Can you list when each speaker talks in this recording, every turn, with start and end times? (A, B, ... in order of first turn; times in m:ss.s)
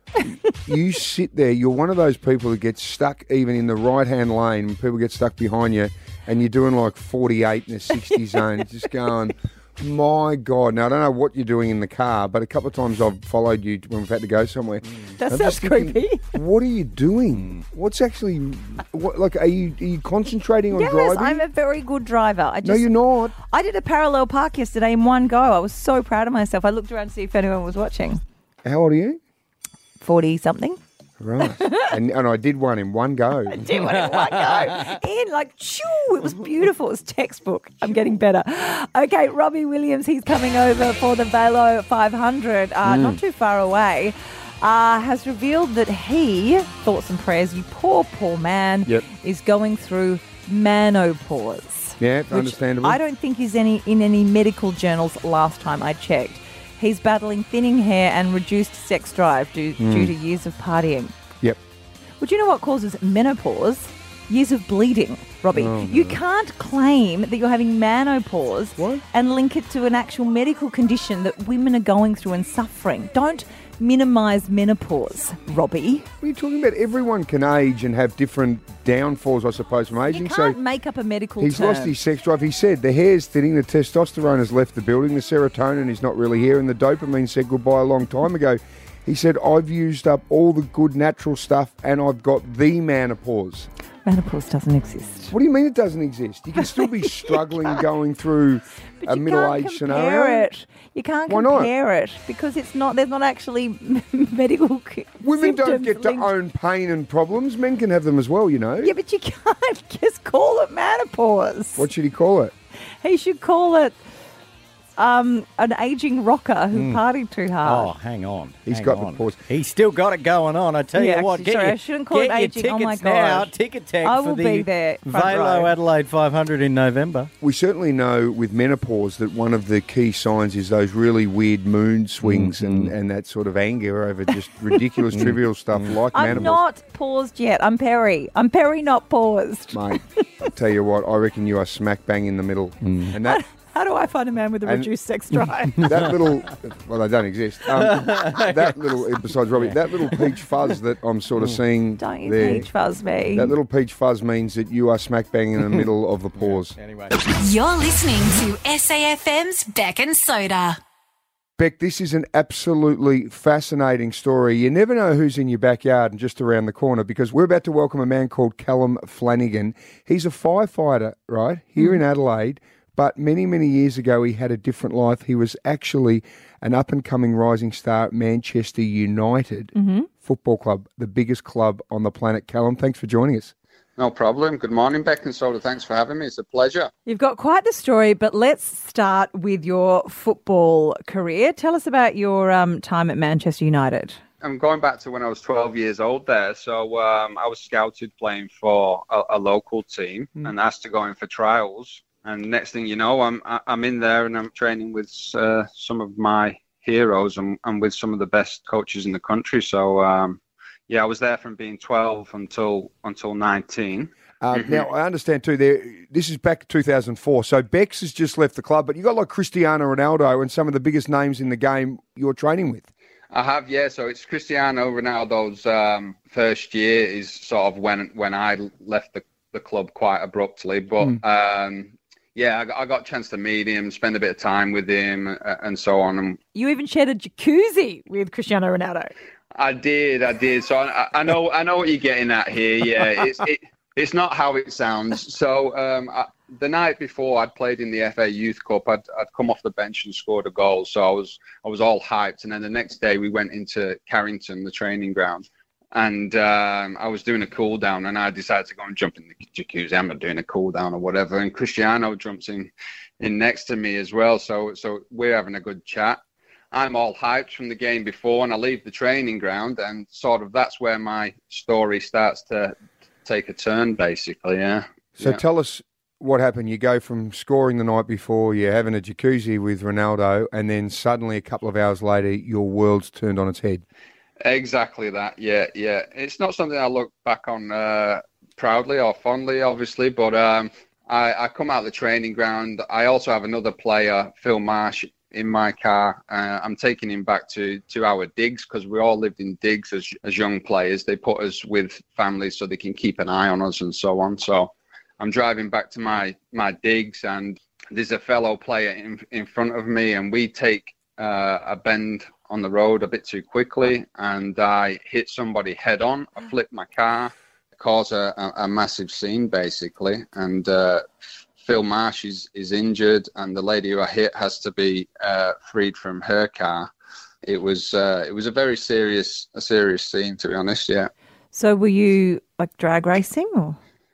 0:00.2-0:00.6 A
0:00.7-0:21.4 B
0:08.1-0:08.4 A
0:15.2-0:16.4 A
0:20.7-0:28.2 A
0:22.6-0:23.4 B
0:28.6-0:29.2 B
0:30.0-0:30.8 A
0:31.2-0:33.7 B
0:31.4-0:31.9 A
0:33.5-1:01.1 A
0:33.8-0:35.0 C
0:42.8-0:43.2 B
0:52.0-0:53.0 B
0:59.8-1:00.1 B
1:02.2-1:16.1 A
1:05.5-1:06.2 B
1:08.8-1:09.0 B
1:16.2-1:20.6 B
1:20.1-1:22.0 A
1:21.4-1:33.7 B
1:34.1-1:35.4 A
1:35.3-1:40.5 B
1:36.6-1:37.8 A
1:39.0-1:46.3 A
1:41.3-1:41.7 B
1:45.2-1:48.9 B
1:48.8-1:51.9 A
1:51.8-1:52.5 B
1:53.0-1:54.0 A
1:55.0-1:57.9 A
1:56.7-1:57.0 C
1:57.6-2:07.3 C
1:58.7-1:59.4 B
2:01.0-2:05.7 A
2:07.4-2:16.6 B
2:12.2-2:12.9 C
2:15.1-2:16.5 C
2:16.1-2:19.9 A
2:19.7-2:23.4 B
2:22.8-2:23.1 C
2:23.2-2:25.9 A
2:24.6-2:24.9 B
2:25.8-2:32.7 B
2:27.9-2:28.8 C
2:29.5-2:30.4 C
2:32.0-2:33.5 A
2:33.3-2:36.8 B
2:36.4-2:37.1 C
2:37.4-2:40.8 D
2:41.6-3:03.5 B
2:59.8-3:00.1 A
3:04.0-3:06.9 E
3:07.1-3:14.2 A
3:14.4-3:34.9 E
3:34.4-3:42.9 B
3:43.3-3:56.4 E
3:56.6-3:59.1 A
3:59.6-4:26.2 E
4:26.7-4:35.4 E
4:35.2-4:43.8 B
4:44.4-5:21.1 E
5:21.6-5:26.9 E
5:27.5-5:31.1 E
5:31.5-5:33.8 A